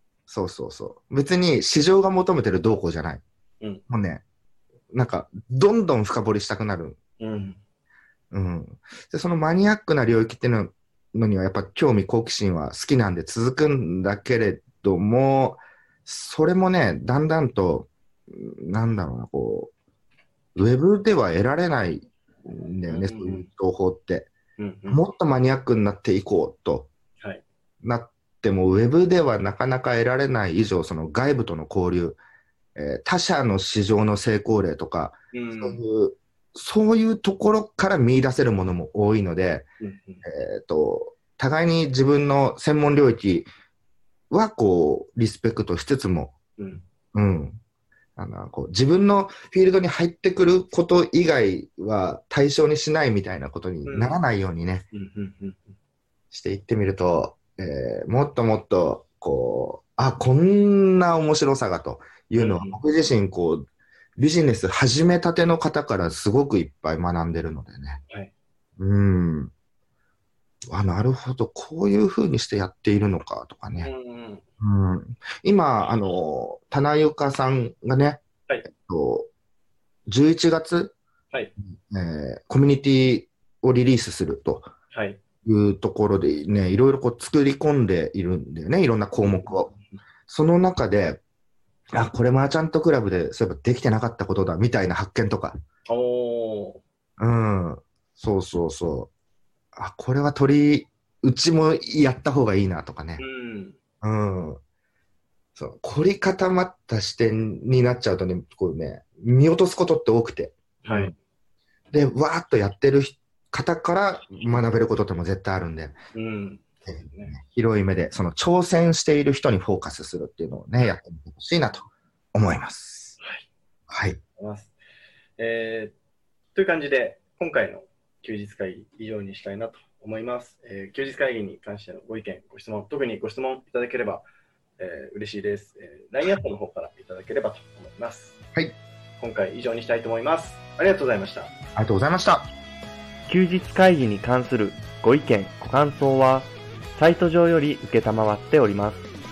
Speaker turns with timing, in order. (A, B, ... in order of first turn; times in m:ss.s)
0:00.3-0:03.2 A
0:03.9-0:04.2 A
0:04.9-0:07.0 A
0:07.2-0:07.6 B
0:08.3-0:19.7 A
0:20.5-0:24.3 A
0:22.9-0:23.4 B
0:24.6-0:25.0 B
0:24.9-0:26.9 A
0:27.8-0:32.2 A
0:32.8-0:39.7 A
0:35.3-0:35.8 B
0:39.8-0:40.2 B
0:40.2-0:43.5 A
0:44.3-0:46.3 A
0:46.6-0:46.8 B
0:47.1-0:47.6 A
0:48.2-0:54.8 A
0:53.8-0:54.2 B
0:54.9-0:55.7 B
0:56.3-1:03.6 A
1:02.4-1:02.8 B
1:04.2-1:08.0 A
1:08.8-1:09.5 A
1:10.7-1:13.9 A
1:13.8-1:14.4 B
1:14.6-1:19.3 A
1:20.1-1:20.9 A
1:21.6-1:24.7 A
1:24.9-1:25.2 B
1:25.4-1:29.7 A
1:29.4-1:30.0 B
1:30.3-1:31.2 A
1:31.9-1:35.6 A
1:35.9-1:36.8 B
1:37.2-1:39.1 A
1:39.7-1:43.2 A
1:43.2-1:43.8 B
1:44.0-1:44.6 A
1:45.6-1:51.1 A
1:50.8-1:51.1 B
1:51.9-1:55.9 A
1:56.1-1:57.3 B
1:56.8-2:03.2 A
2:03.2-2:03.4 B
2:03.9-2:04.2 A
2:04.4-2:04.7 B
2:05.4-2:05.9 B
2:06.5-2:14.2 B
2:14.8-2:18.4 B
2:19.2-2:21.5 B
2:21.8-2:22.5 A
2:23.3-2:29.0 C